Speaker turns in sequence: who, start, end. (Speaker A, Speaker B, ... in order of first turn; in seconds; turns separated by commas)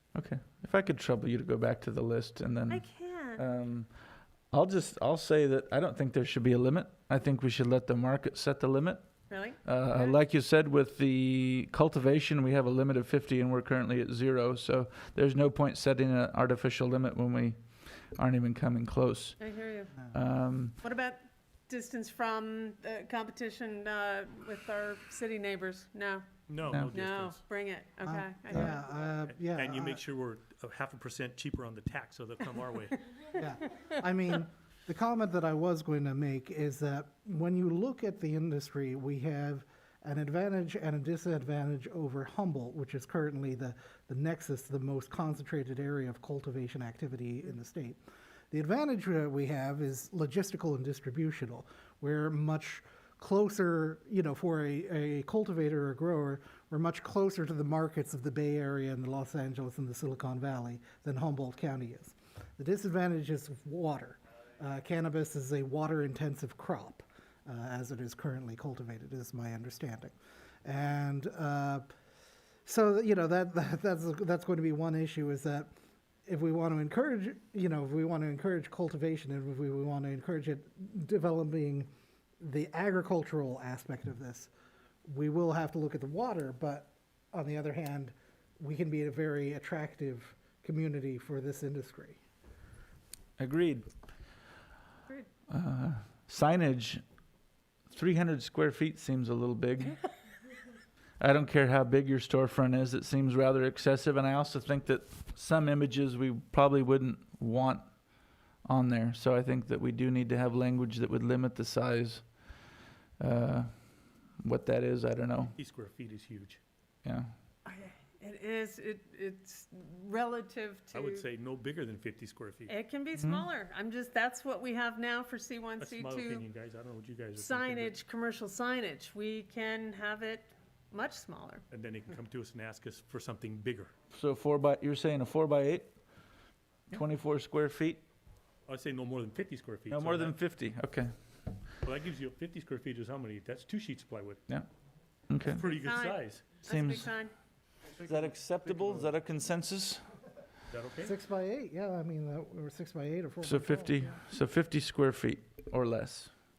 Speaker A: 0.1-3.9, Speaker B: 2.7-3.4, Speaker A: 4.5-19.5, Speaker B: 9.3-10.2, Speaker B: 19.4-19.9, Speaker A: 20.1-20.8, Speaker B: 20.8-26.3, Speaker C: 26.5-27.4, Speaker B: 26.8-28.9, Speaker D: 28.0-30.0, Speaker C: 29.3-33.0, Speaker D: 33.4-48.0, Speaker D: 48.5-71.9, Speaker D: 72.7-75.7, Speaker D: 76.3-81.9, Speaker D: 82.4-84.5, Speaker D: 85.0-92.2, Speaker A: 93.4-93.9, Speaker A: 95.5-97.0, Speaker A: 97.9-100.0, Speaker A: 101.2-112.3, Speaker A: 113.2-115.5, Speaker C: 115.6-116.6, Speaker A: 117.0-117.3, Speaker B: 117.7-121.2, Speaker C: 120.9-122.7, Speaker B: 122.7-126.5, Speaker A: 123.2-123.5, Speaker C: 125.8-128.0, Speaker B: 127.3-131.7, Speaker C: 131.7-133.9, Speaker A: 134.1-135.9, Speaker A: 136.9-138.0, Speaker C: 138.7-140.4, Speaker A: 139.9-141.1, Speaker C: 141.8-144.4, Speaker A: 145.3-145.6, Speaker C: 145.4-146.5, Speaker B: 145.6-147.3, Speaker A: 146.6-147.1, Speaker A: 148.0-150.0, Speaker C: 150.7-151.1, Speaker D: 151.0-154.1, Speaker A: 153.4-156.3